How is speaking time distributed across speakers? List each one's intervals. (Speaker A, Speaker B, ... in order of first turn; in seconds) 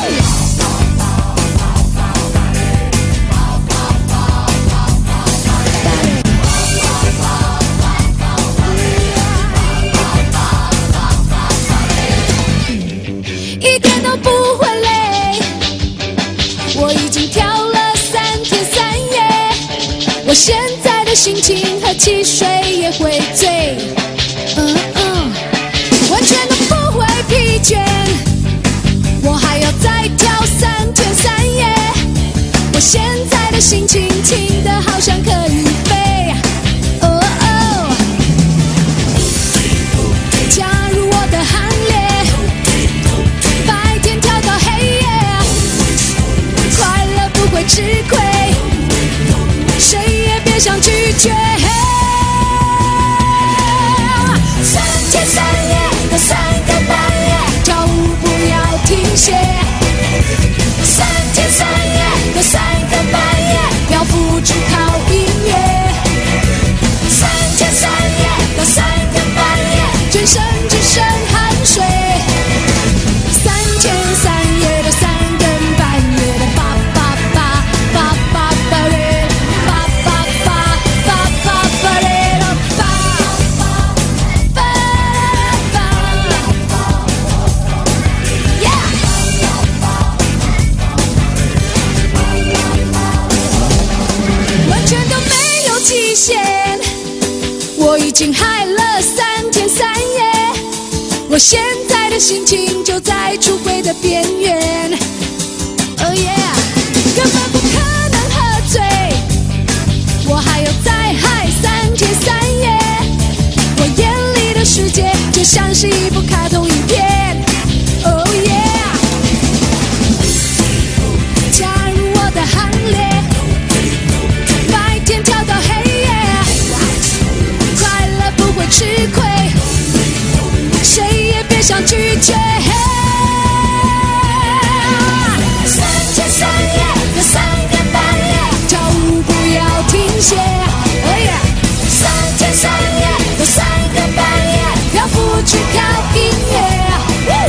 Speaker A: 8.9-9.3, 13.6-15.5, 16.7-19.6, 20.2-23.9, 24.6-25.4, 26.1-28.2, 29.2-32.0, 32.7-36.4, 37.0-38.0, 40.4-42.5, 43.6-45.5, 46.6-48.6, 49.8-52.9, 53.5-59.7, 60.8-66.0, 67.1-72.3, 73.3-83.6, 84.5-86.6, 88.6-89.0, 94.6-96.8, 97.8-100.6, 101.3-105.0, 106.0-109.2, 110.2-113.1, 113.7-117.5, 118.0-119.0, 121.5-123.4, 124.7-126.7, 127.7-129.6, 130.8-147.3